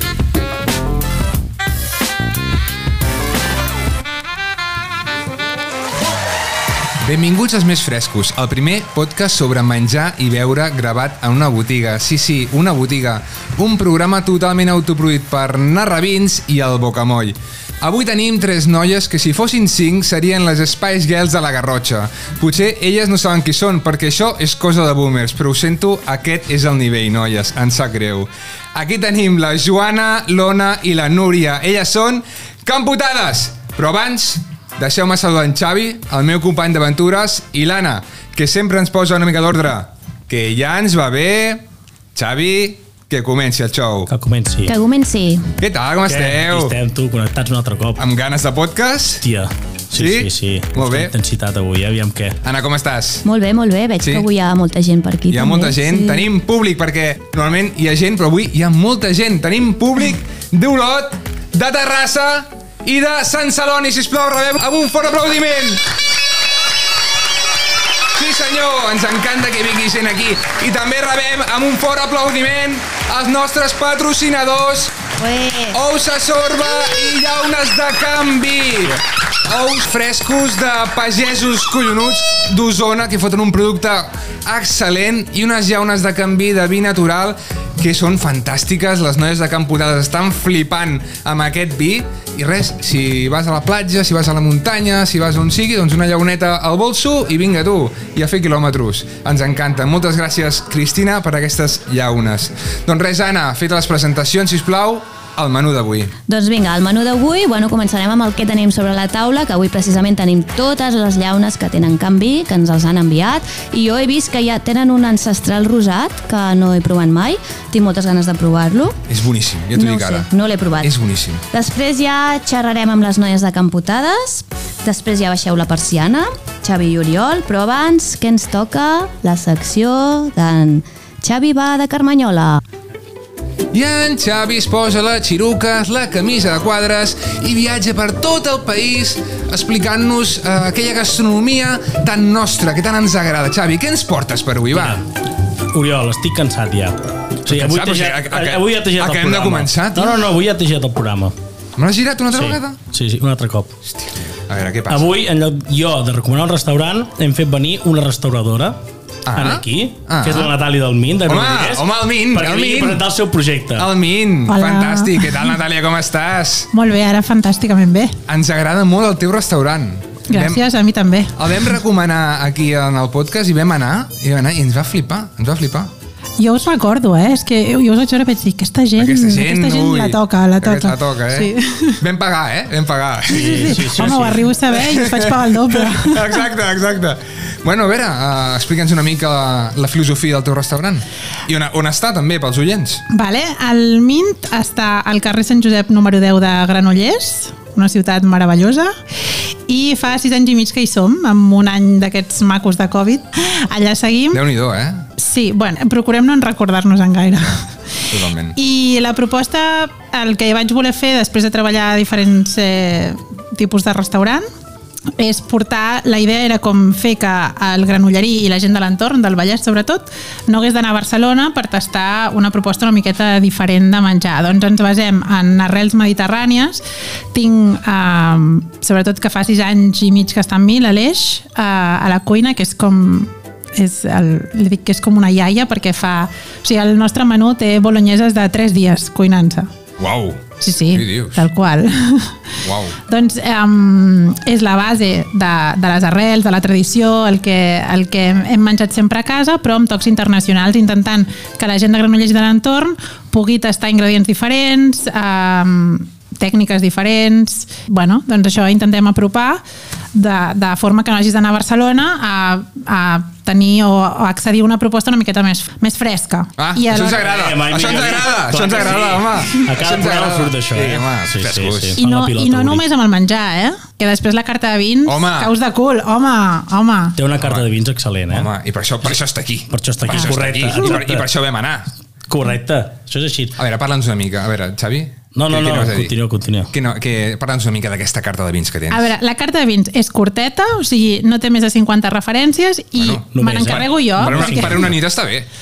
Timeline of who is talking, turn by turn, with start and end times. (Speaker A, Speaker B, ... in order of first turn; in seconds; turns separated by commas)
Speaker A: 7.0-44.1, Speaker B: 44.1-44.7, Speaker C: 44.6-45.5, Speaker A: 45.6-46.8, Speaker B: 46.0-48.0, Speaker A: 48.0-49.2, Speaker B: 49.2-52.4, Speaker A: 49.9-51.1, Speaker A: 52.4-53.2, Speaker C: 53.2-56.2, Speaker A: 54.0-54.3, Speaker A: 55.3-65.8, Speaker A: 68.1-75.0, Speaker C: 75.2-75.8, Speaker A: 75.7-106.1, Speaker C: 106.2-119.0, Speaker A: 119.1-120.3, Speaker C: 119.7-120.9, Speaker A: 120.8-121.4, Speaker C: 121.5-132.6, Speaker A: 133.7-145.0, Speaker B: 144.7-145.0, Speaker B: 145.7-151.3, Speaker A: 147.5-150.2, Speaker A: 151.8-152.8, Speaker B: 152.3-153.7, Speaker A: 153.8-155.1, Speaker B: 154.9-158.8, Speaker A: 159.3-160.5, Speaker B: 159.3-163.9, Speaker A: 161.2-163.1, Speaker A: 163.8-166.7, Speaker D: 164.5-165.5, Speaker D: 166.7-168.1, Speaker A: 168.3-170.6, Speaker D: 170.3-171.7, Speaker A: 171.3-175.9, Speaker D: 176.4-182.0, Speaker A: 179.0-193.0, Speaker B: 183.3-184.5, Speaker D: 183.3-186.4, Speaker D: 193.1-198.9, Speaker D: 199.7-204.4, Speaker A: 204.3-205.1, Speaker D: 205.2-214.4, Speaker A: 208.1-208.6, Speaker D: 215.2-226.8, Speaker D: 227.3-239.7, Speaker A: 240.0-241.4, Speaker D: 240.6-259.6, Speaker A: 242.6-242.9, Speaker D: 260.1-267.4, Speaker A: 266.6-272.0, Speaker B: 267.2-272.8, Speaker D: 271.9-277.1, Speaker A: 275.1-275.5, Speaker B: 277.2-278.5, Speaker A: 277.4-277.7, Speaker A: 278.3-281.9, Speaker B: 279.7-281.3, Speaker B: 282.3-283.5, Speaker A: 283.6-286.1, Speaker B: 285.3-286.7, Speaker A: 286.7-289.1, Speaker D: 288.9-294.9, Speaker A: 293.0-295.5, Speaker B: 293.3-294.9